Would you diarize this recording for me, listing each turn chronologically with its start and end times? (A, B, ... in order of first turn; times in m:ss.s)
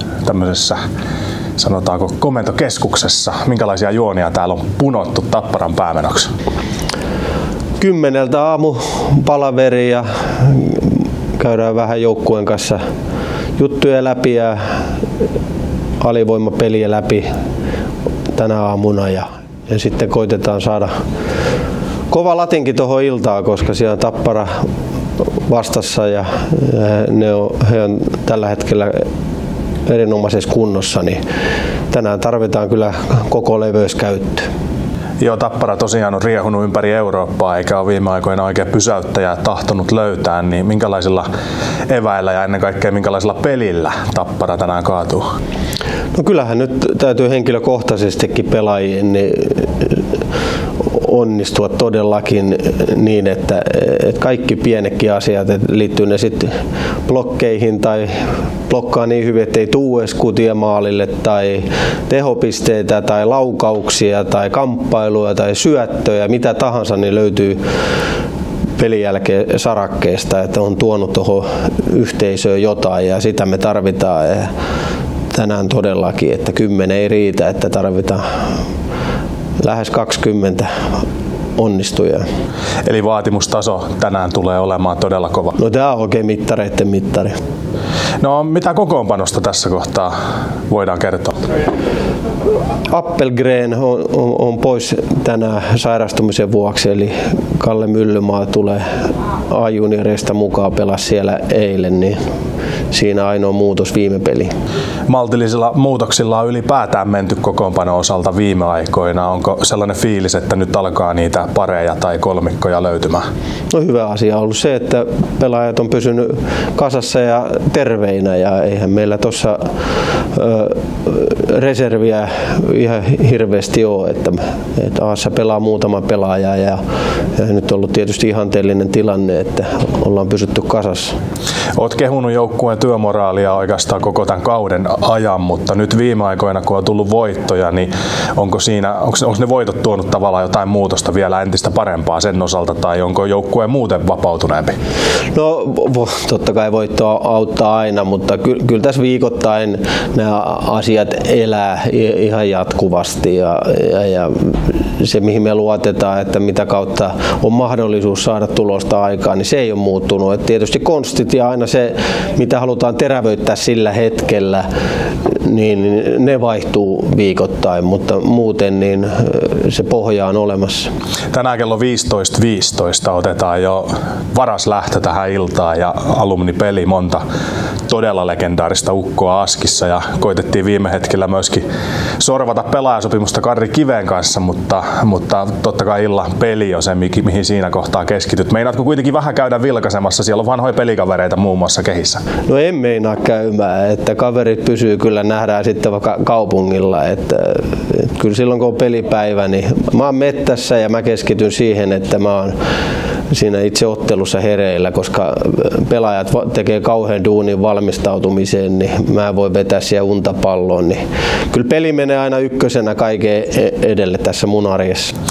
0:00.2-0:00.8 A
0:01.6-0:06.3 A
0:07.8-0:10.8 B
0:11.4-0:12.8 B
0:13.6-0:14.7 B
0:16.0-0:17.3 B
0:18.3-0:20.9 B
0:22.1-0:24.6 B
0:25.4-0:29.0 B
0:29.8-0:31.2 B
0:31.9-0:34.5 B
0:35.2-0:41.3 A
0:41.9-0:45.2 A
0:46.1-0:50.0 B
0:50.9-0:56.5 B
0:57.0-0:58.1 B
0:58.7-1:07.6 B
1:08.8-1:14.5 B
1:15.3-1:18.2 B
1:19.6-1:20.7 B
1:21.6-1:22.2 B
1:22.8-1:25.6 A
1:25.6-1:27.4 B
1:28.2-1:30.1 A
1:30.7-1:31.4 A
1:32.9-1:38.8 B
1:39.5-1:42.2 B
1:42.9-1:44.5 B
1:45.1-1:53.2 A
1:53.7-1:59.6 B
2:00.3-2:06.8 B
2:07.4-2:11.1 B
2:11.8-2:24.7 A
2:25.3-2:44.6 B
2:45.3-2:50.9 B
2:51.3-2:57.2 A
2:57.9-3:01.6 A
3:02.2-3:12.2 A
3:12.5-3:22.5 B
3:23.3-3:35.1 B